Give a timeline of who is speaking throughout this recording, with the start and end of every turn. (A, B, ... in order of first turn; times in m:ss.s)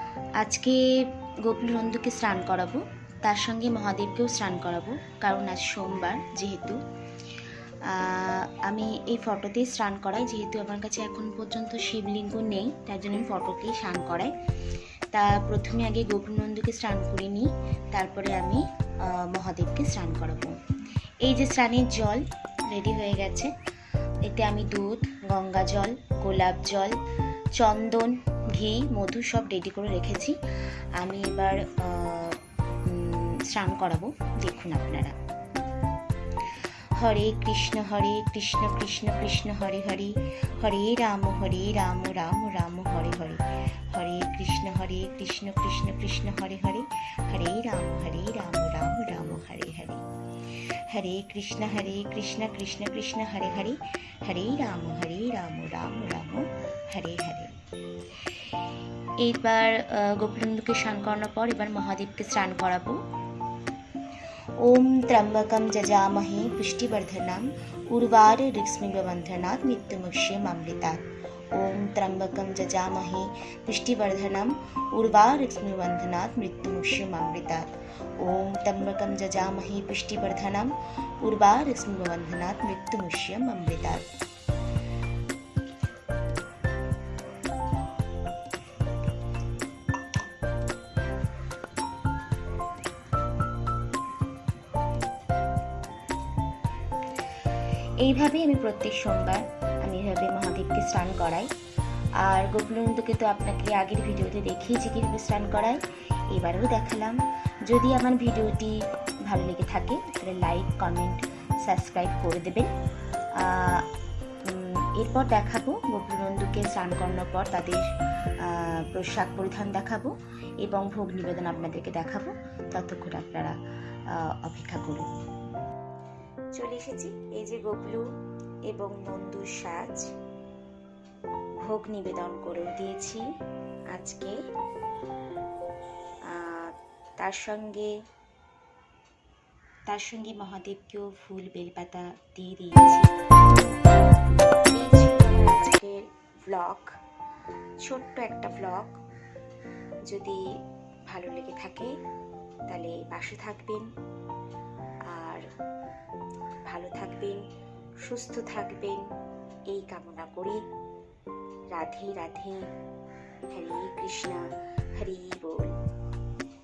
0:00.4-0:06.8 A
0:07.8-0:14.3 A
0:15.1-0:20.6 A
0:21.2-0:23.5 A
0:24.3-0:27.0 A
0:27.6-0:30.4 A
0:31.0-0:35.2 A
0:37.0-0:57.6 A
0:59.2-1:03.0 A
1:04.6-1:24.1 A
1:38.0-1:41.5 A
1:42.2-1:52.7 A
1:53.4-1:53.9 A
1:54.4-1:57.8 A
1:58.4-2:03.6 A
2:04.2-2:05.1 A
2:06.6-2:08.1 A
2:08.7-2:10.1 A
2:11.6-2:13.3 A
2:13.9-2:14.4 A
2:16.3-2:17.9 A
2:19.9-2:23.2 A
2:24.6-2:26.9 A
2:27.8-2:29.0 A
2:30.1-2:30.5 A
2:31.1-2:32.0 A
2:32.7-2:33.9 A
2:35.1-2:35.5 A
2:36.7-2:37.4 A
2:38.0-2:39.1 A
2:39.7-2:40.6 A
2:41.7-2:42.7 A
2:43.5-2:45.8 A